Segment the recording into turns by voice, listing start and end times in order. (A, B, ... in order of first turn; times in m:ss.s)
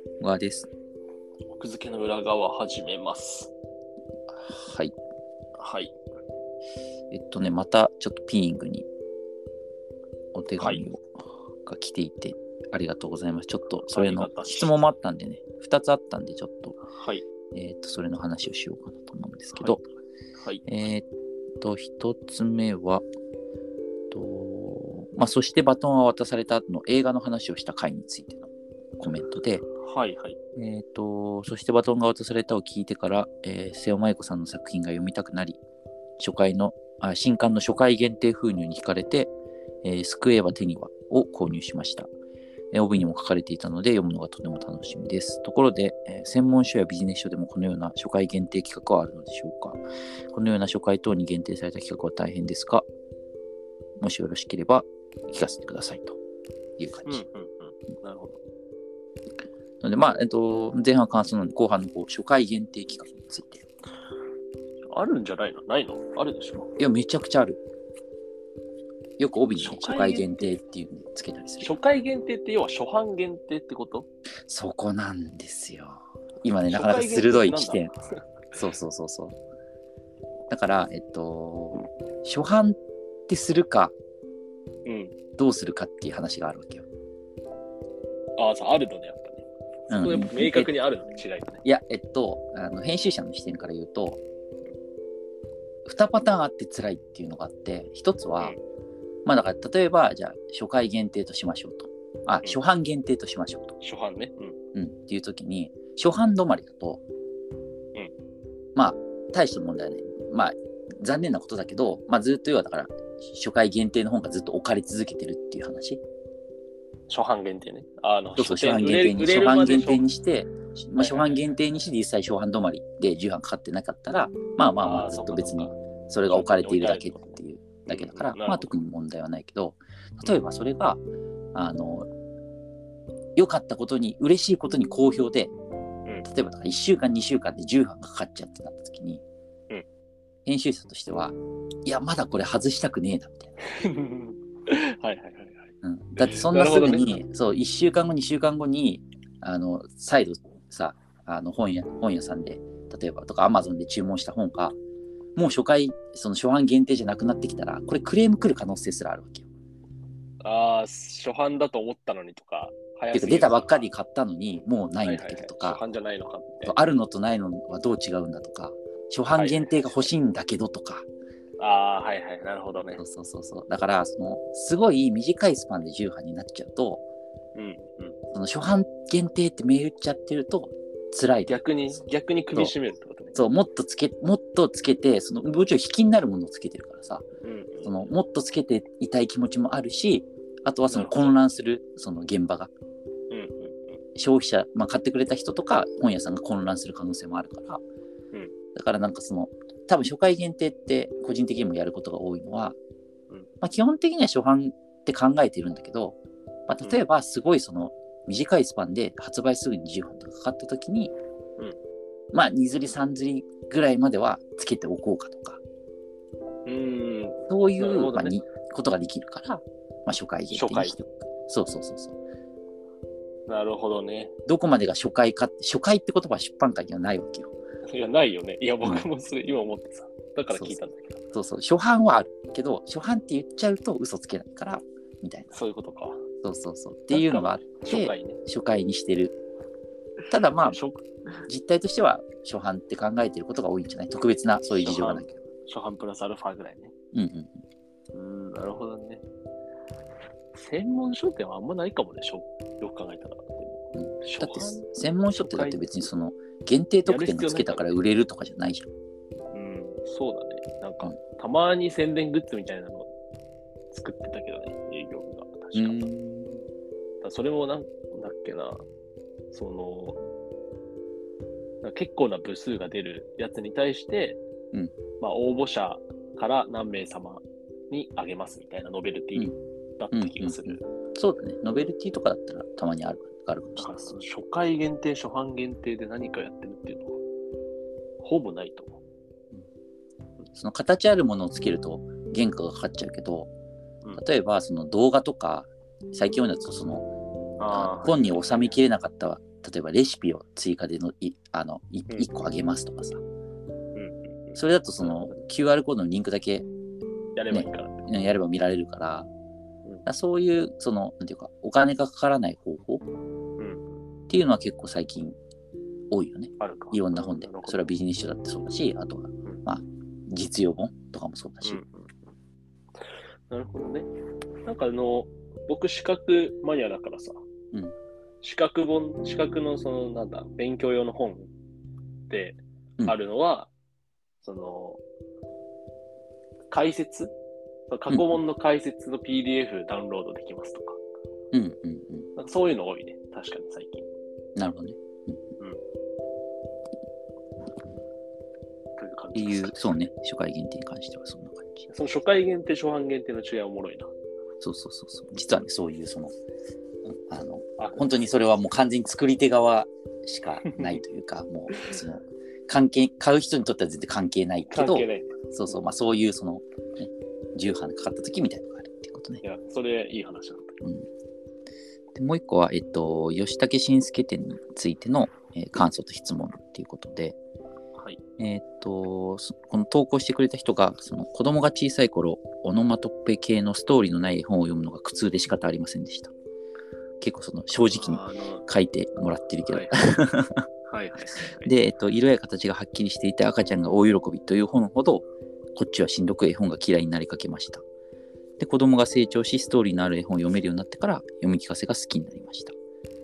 0:00.2-0:00.7 A
0:01.5-0:03.5 B
0:04.5-0:04.9 A
0:05.6-0:05.9 B
0:07.1-0:08.9 A
0:10.4-0:11.0 A
0:10.6-0:10.8 B
0:11.6-0:16.8 A
0:13.9-0:14.8 B
0:16.9-0:17.2 B
0:17.5-0:19.8 A
0:19.6-0:19.8 B
0:20.4-0:20.7 B
0:20.7-0:21.1 A
0:21.6-0:23.0 A
0:24.1-0:29.6 A
0:29.8-0:30.4 B
0:30.6-0:35.6 A
0:36.2-0:39.3 A
0:39.8-0:42.1 A
0:42.7-0:49.8 A
0:50.3-0:52.8 A
0:54.0-0:56.2 A
0:56.8-0:57.2 A
0:57.1-0:58.4 B
0:59.8-1:03.6 A
1:04.9-1:06.7 B
1:06.8-1:07.6 A
1:09.2-1:11.7 A
1:09.6-1:10.5 B
1:11.6-1:14.1 B
1:14.5-1:17.9 A
1:16.7-1:18.0 B
1:18.6-1:19.4 A
1:20.5-1:23.9 A
1:24.9-1:25.2 B
1:25.4-1:26.8 A
1:28.4-1:31.6 B
1:29.9-1:30.7 A
1:31.6-1:34.2 A
1:35.8-1:38.6 A
1:39.2-1:43.8 A
1:43.8-1:44.6 B
1:44.7-1:47.0 A
1:48.8-1:56.0 A
1:57.1-2:00.1 B
1:58.4-2:11.0 A
2:01.0-2:01.4 B
2:04.8-2:05.8 B
2:06.3-2:08.8 B
2:11.6-2:12.1 A
2:13.4-2:15.5 A
2:16.2-2:19.2 A
2:20.4-2:23.5 A
2:23.7-2:25.7 B
2:25.8-2:34.8 A
2:26.2-2:27.2 B
2:35.4-2:39.5 A
2:40.4-2:43.8 B
2:43.1-2:45.8 A
2:45.0-2:46.8 B
2:46.6-2:51.1 A
2:49.3-2:50.1 B
2:51.6-2:53.0 B
2:53.0-2:57.0 A
2:57.6-2:58.2 B
2:58.3-3:01.6 A
3:01.5-3:03.4 B
3:03.4-3:07.2 A
3:07.4-3:08.1 B
3:07.8-3:12.7 A
3:10.9-3:11.4 B
3:13.3-3:14.0 B
3:14.2-3:17.8 A
3:18.8-3:22.8 A
3:23.6-3:26.2 A
3:26.7-3:31.1 A
3:32.3-3:35.6 A
3:36.7-3:38.4 B
3:37.5-3:42.2 A
3:40.5-3:41.0 B
3:43.5-3:44.3 B
3:44.5-3:47.5 A
3:47.9-3:51.2 B
3:51.3-3:55.5 A
3:55.5-3:56.2 B
3:56.4-3:59.4 A
3:57.1-3:58.4 B
4:00.3-4:00.8 A
4:00.5-4:01.5 B
4:01.5-4:05.4 A
4:04.8-4:06.9 B
4:07.1-4:07.6 A
4:08.1-4:09.2 B
4:10.5-4:15.9 B
4:14.0-4:18.9 A
4:17.0-4:17.9 B
4:19.5-4:23.1 B
4:23.9-4:26.1 B
4:25.8-4:26.6 A
4:27.2-4:28.8 B
4:29.5-4:30.2 B
4:31.8-4:34.4 B
4:35.2-4:40.8 B
4:40.1-4:43.9 A
4:43.8-4:47.2 B
4:48.2-4:49.0 B
4:50.6-4:53.5 A
4:54.2-4:57.1 A
4:57.6-4:58.7 B
4:57.7-5:03.2 A
5:04.0-5:04.6 B
5:04.6-5:06.7 A
5:07.4-5:08.0 B
5:07.5-5:09.3 A
5:10.1-5:13.1 A
5:13.6-5:14.0 B
5:14.3-5:15.4 A
5:16.1-5:21.8 A
5:16.6-5:17.9 B
5:21.6-5:22.3 B
5:23.5-5:24.1 B
5:24.7-5:27.4 B
5:28.4-5:31.5 B
5:32.3-5:33.7 B
5:34.4-5:35.0 B
5:36.7-5:37.3 B
5:37.9-5:41.0 B
5:38.1-5:38.4 A
5:41.5-5:42.3 A
5:42.4-5:44.1 B
5:44.6-5:45.4 A
5:49.0-5:50.1 B
5:49.4-5:51.9 A
5:51.9-5:54.1 B
5:54.6-5:56.3 A
5:57.1-6:09.4 A
6:00.7-6:01.0 B
6:04.7-6:05.3 B
6:09.4-6:10.8 B
6:12.2-6:17.4 A
6:18.4-6:26.3 A
6:27.2-6:30.6 A
6:28.0-6:28.6 B
6:29.7-6:30.0 B
6:30.9-6:31.7 B
6:31.4-6:37.8 A
6:38.6-6:42.7 A